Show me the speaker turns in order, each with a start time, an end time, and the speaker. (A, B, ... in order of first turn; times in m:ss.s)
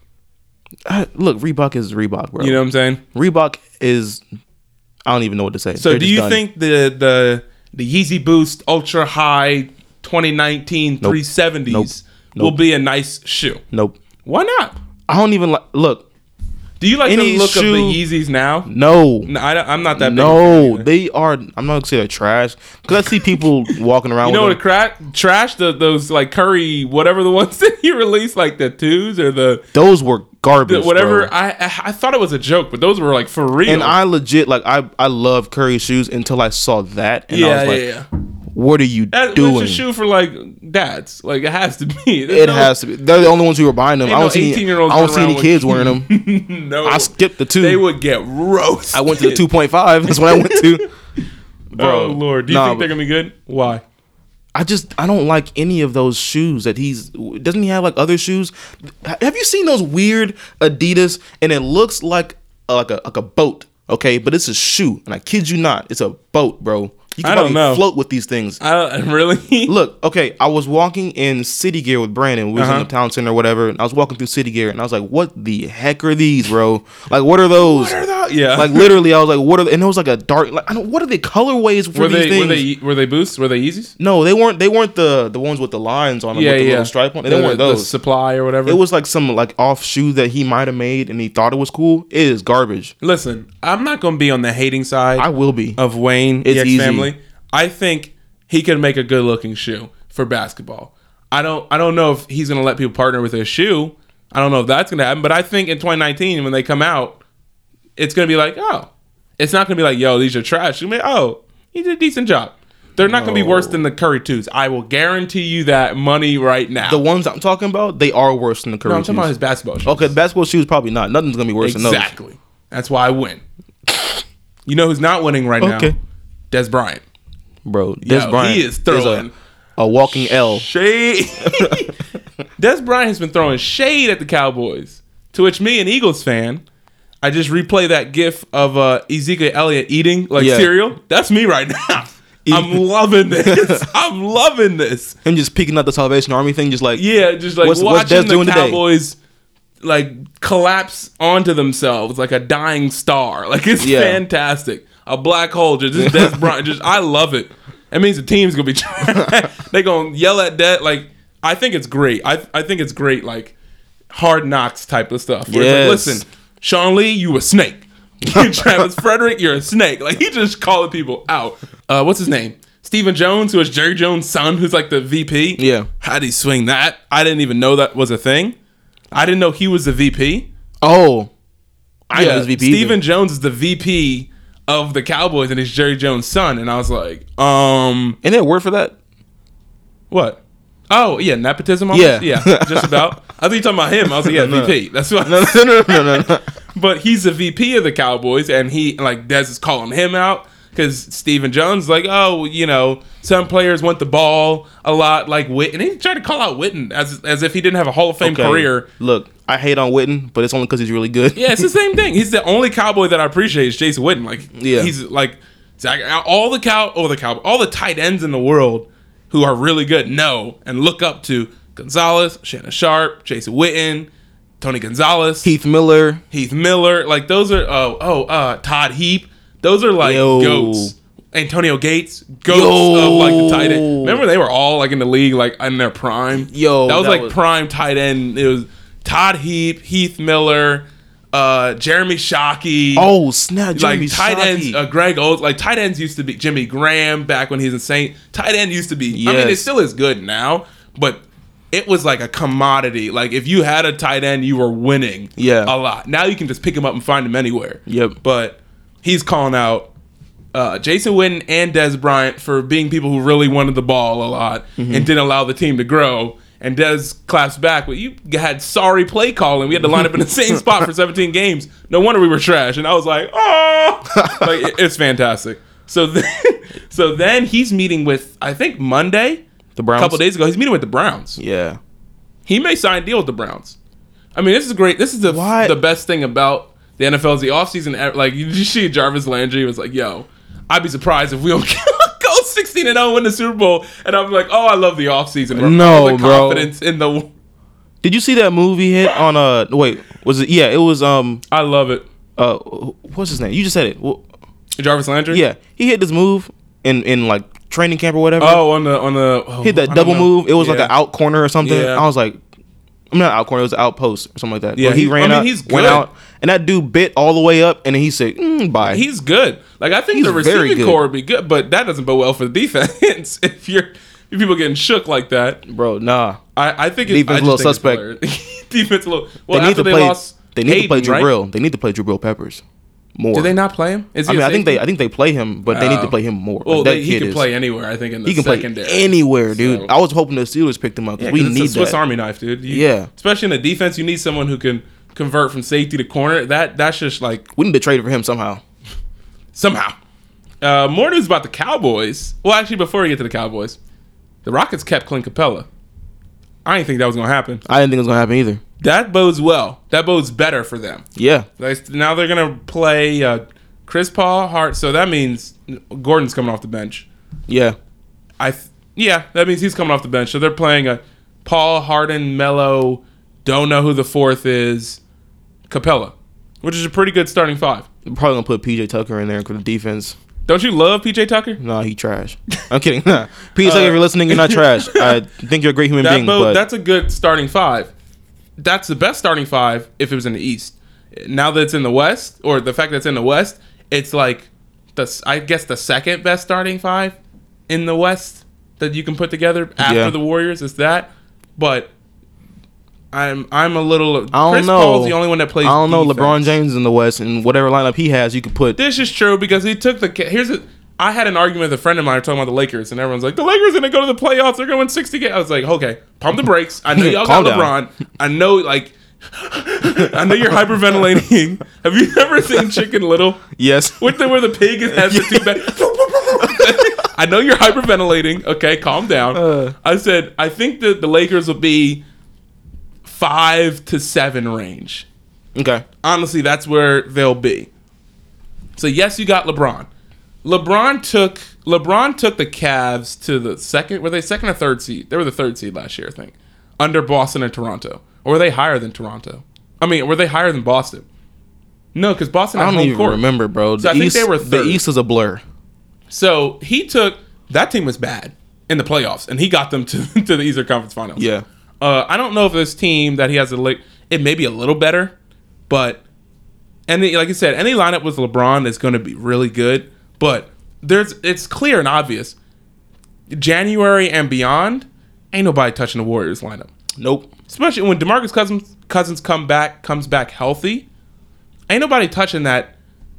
0:00.8-0:02.6 A
0:02.4-0:03.0 B
0:03.1-0:04.2 A
0:05.0-0:06.4 A
0:05.8-0:13.6 B
0:11.0-0:12.6 A
0:13.7-0:14.0 A
0:14.2-0:14.8 B
0:15.1-0:16.0 A
0:16.8-0:18.7 B
0:17.0-0:18.0 A
0:18.6-0:19.3 A
0:19.2-0:20.8 B
0:19.9-0:24.6 A
0:24.2-0:29.6 B
0:29.7-0:31.3 A
0:30.6-0:33.9 B
0:33.6-0:37.8 A
0:37.3-0:38.0 B
0:38.5-0:39.8 A
0:39.1-0:42.7 B
0:42.3-0:46.2 A
0:44.0-0:49.5 B
0:46.8-0:47.8 A
0:48.9-0:50.8 A
0:50.1-0:50.8 B
0:51.7-0:52.9 A
0:51.8-0:53.8 B
0:54.5-1:08.6 A
1:07.2-1:07.8 B
1:08.6-1:09.7 B
1:09.7-1:18.0 A
1:12.5-1:12.9 B
1:17.6-1:19.0 B
1:18.5-1:22.6 A
1:21.9-1:23.9 B
1:24.0-1:27.9 A
1:26.3-1:28.8 B
1:28.6-1:32.9 A
1:33.0-1:47.2 B
1:35.2-1:35.8 A
1:36.4-1:37.1 A
1:48.0-1:57.0 B
1:53.0-1:53.8 A
1:56.8-1:59.3 A
1:58.8-2:00.1 B
1:59.8-2:02.1 A
2:01.6-2:03.4 B
2:04.6-2:05.9 B
2:05.6-2:05.9 A
2:06.5-2:07.0 B
2:07.6-2:10.7 A
2:08.0-2:09.3 B
2:10.1-2:11.9 B
2:11.5-2:11.9 A
2:12.6-2:16.6 B
2:17.2-2:25.2 B
2:20.4-2:20.7 A
2:22.4-2:22.8 A
2:23.3-2:23.8 A
2:25.2-2:27.0 A
2:27.0-2:29.2 B
2:27.6-2:28.8 A
2:29.8-2:43.5 B
2:33.8-2:34.2 A
2:36.0-2:36.5 A
2:44.1-2:58.6 B
2:45.5-2:46.2 A
2:48.3-2:48.7 A
2:55.6-2:55.9 A
2:59.1-3:00.5 B
3:00.8-3:01.3 A
3:02.1-3:03.0 A
3:02.1-3:08.2 B
3:08.2-3:09.0 A
3:10.1-3:28.9 B
3:11.9-3:13.1 A
3:14.2-3:16.4 A
3:28.2-3:31.6 A
3:31.3-3:44.1 B
3:34.5-3:34.9 A
3:44.6-3:45.5 B
3:45.4-3:46.2 A
3:46.3-4:03.1 B
3:50.0-3:50.9 A
3:52.5-3:54.2 A
3:56.4-3:57.3 A
4:02.9-4:04.8 A
4:03.7-4:19.9 B
4:09.1-4:09.7 A
4:15.4-4:15.7 A
4:17.9-4:18.2 A
4:20.5-4:39.4 B
4:24.8-4:25.1 A
4:34.2-4:34.5 A
4:39.8-4:40.2 A
4:40.0-4:41.4 B
4:41.4-4:41.8 A
4:42.4-4:43.8 B
4:44.3-4:57.3 B
4:45.2-4:45.8 A
4:55.5-4:56.7 A
4:58.0-5:01.4 A
5:01.5-5:02.0 B
5:02.4-5:04.2 A
5:04.8-5:05.4 B
5:05.3-5:08.6 A
5:08.4-5:10.9 B
5:09.6-5:12.4 A
5:11.6-5:12.0 B
5:13.1-5:19.0 A
5:14.7-5:16.0 B
5:18.9-5:25.6 B
5:20.1-5:21.0 A
5:25.7-5:26.4 A
5:26.6-5:31.3 B
5:27.0-5:28.0 A
5:29.5-5:32.6 A
5:33.2-5:33.5 A
5:33.3-5:34.8 B
5:34.2-5:37.4 A
5:35.7-5:39.9 B
5:38.2-5:42.0 A
5:41.2-5:47.4 B
5:42.7-5:43.1 A
5:47.5-5:48.6 A
5:49.5-5:50.0 B
5:50.6-5:53.8 B
5:54.4-5:55.7 B
5:56.6-5:57.6 B
5:57.6-5:58.6 A
5:58.8-6:01.0 B
6:01.2-6:01.5 A
6:01.6-6:07.1 B
6:07.5-6:07.8 A
6:08.4-6:15.0 B
6:15.7-6:17.9 B
6:18.0-6:20.2 A
6:20.4-6:21.6 B
6:21.6-6:26.6 A
6:23.6-6:25.1 B
6:26.0-6:27.9 B
6:28.6-6:37.2 B
6:37.7-6:41.9 B
6:39.8-6:40.1 A
6:43.1-6:46.6 B
6:44.3-6:48.8 A
6:48.8-7:03.4 B
6:56.9-6:57.7 A
7:03.5-7:04.3 A
7:04.0-7:12.0 B
7:04.9-7:05.8 A
7:06.4-7:06.9 A
7:09.3-7:09.7 A
7:13.0-7:15.1 B
7:15.5-7:15.8 A
7:16.0-7:17.7 B
7:18.8-7:19.9 B
7:20.4-7:31.0 B
7:31.9-7:33.2 B
7:32.5-7:35.4 A
7:33.8-7:34.8 B
7:36.1-7:41.2 B
7:41.2-7:41.4 A
7:41.8-7:45.1 B
7:45.7-7:46.0 B
7:46.9-7:52.4 B
7:53.3-7:56.7 B
7:57.0-7:57.3 A
7:57.5-8:00.8 B
8:01.7-8:02.7 B